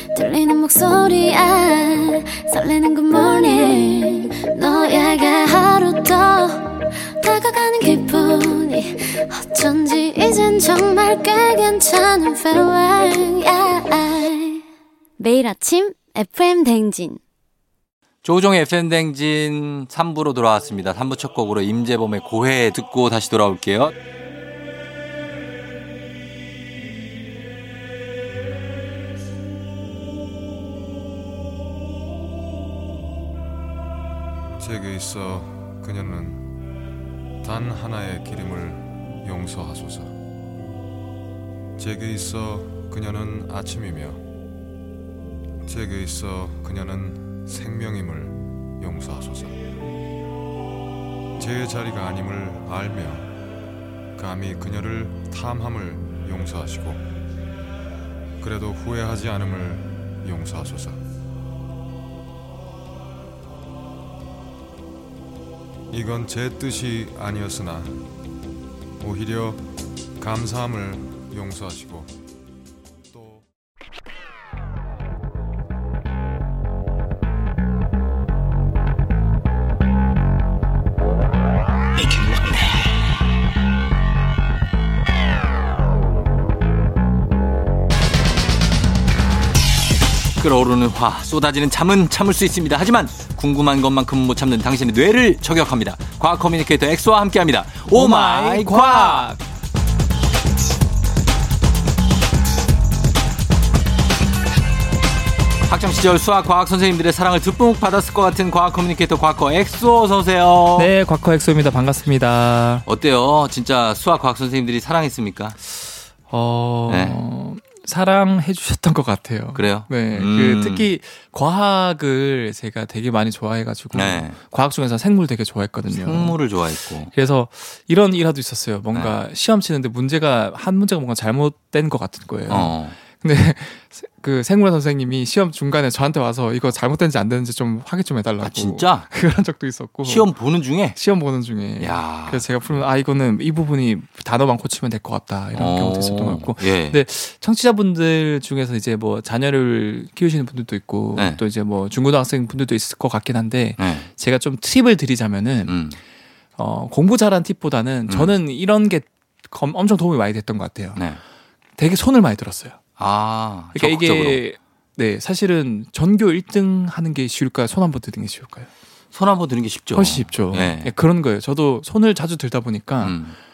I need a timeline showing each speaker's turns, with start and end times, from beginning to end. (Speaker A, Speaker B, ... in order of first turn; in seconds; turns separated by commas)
Speaker A: 0.1-14.6, Speaker A: 15.2-17.2, Speaker B: 18.2-23.9, Speaker C: 34.6-36.6, Speaker C: 37.4-40.1, Speaker C: 41.8-44.2, Speaker C: 45.6-49.6, Speaker C: 51.4-53.4, Speaker C: 54.2-57.1, Speaker C: 58.4-61.0, Speaker C: 65.9-68.1, Speaker C: 69.0-69.7, Speaker C: 70.2-72.1, Speaker C: 73.1-73.4, Speaker B: 90.4-99.3, Speaker D: 97.9-99.4, Speaker B: 105.7-110.9, Speaker D: 110.8-112.8, Speaker B: 112.9-115.6, Speaker D: 116.3-126.4, Speaker B: 116.9-117.2, Speaker B: 119.5-120.9, Speaker B: 123.9-124.4, Speaker B: 125.9-127.1, Speaker D: 127.1-140.3, Speaker B: 132.5-133.0, Speaker B: 138.4-139.1, Speaker B: 140.1-141.0, Speaker D: 140.9-155.8, Speaker B: 141.8-142.6, Speaker B: 145.6-147.0, Speaker B: 151.2-151.4, Speaker B: 153.8-154.1, Speaker B: 155.7-156.0, Speaker D: 156.6-161.0, Speaker B: 158.1-158.3, Speaker D: 161.8-162.8, Speaker B: 163.0-164.4, Speaker D: 163.7-168.7, Speaker B: 169.1-170.9, Speaker D: 169.9-173.2, Speaker B: 173.0-173.3